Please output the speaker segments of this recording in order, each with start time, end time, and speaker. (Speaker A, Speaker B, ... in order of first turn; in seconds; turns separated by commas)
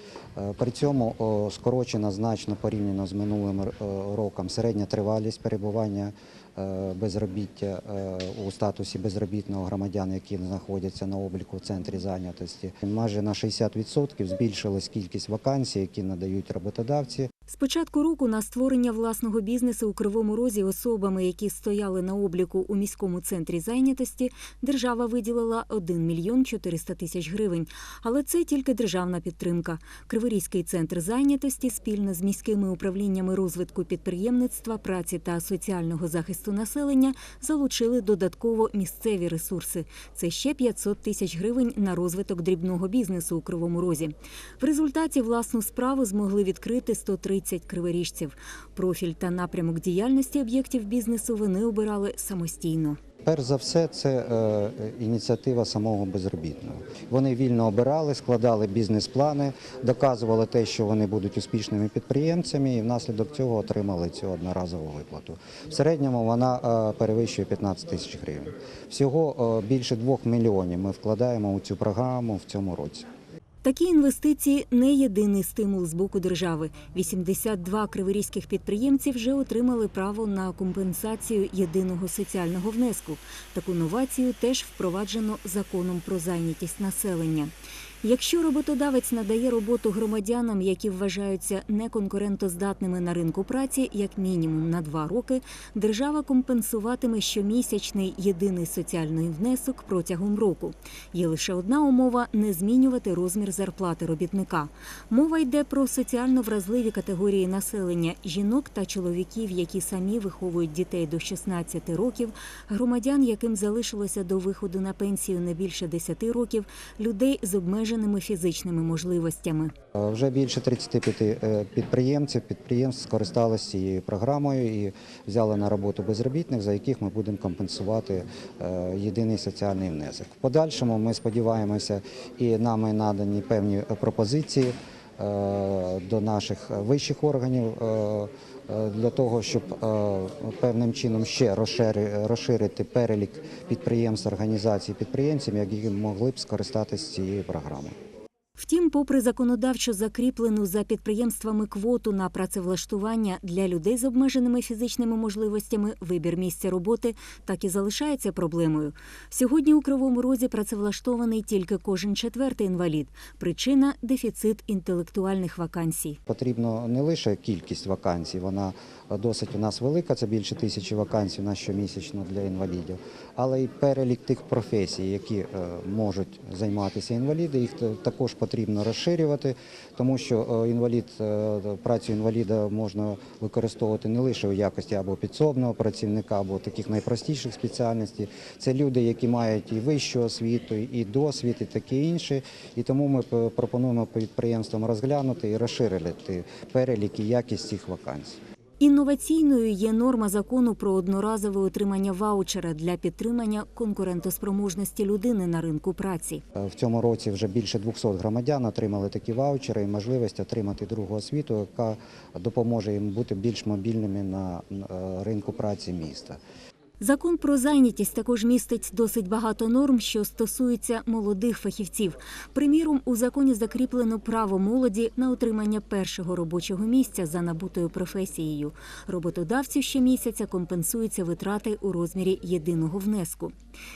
Speaker A: 0.4-17.3, Speaker B: 17.5-53.0, Speaker A: 53.2-73.1, Speaker B: 73.6-87.5, Speaker B: 88.0-119.7, Speaker A: 120.0-147.9, Speaker B: 148.6-166.2, Speaker A: 166.3-198.4, Speaker B: 198.8-206.4, Speaker A: 206.6-216.4, Speaker B: 217.0-233.5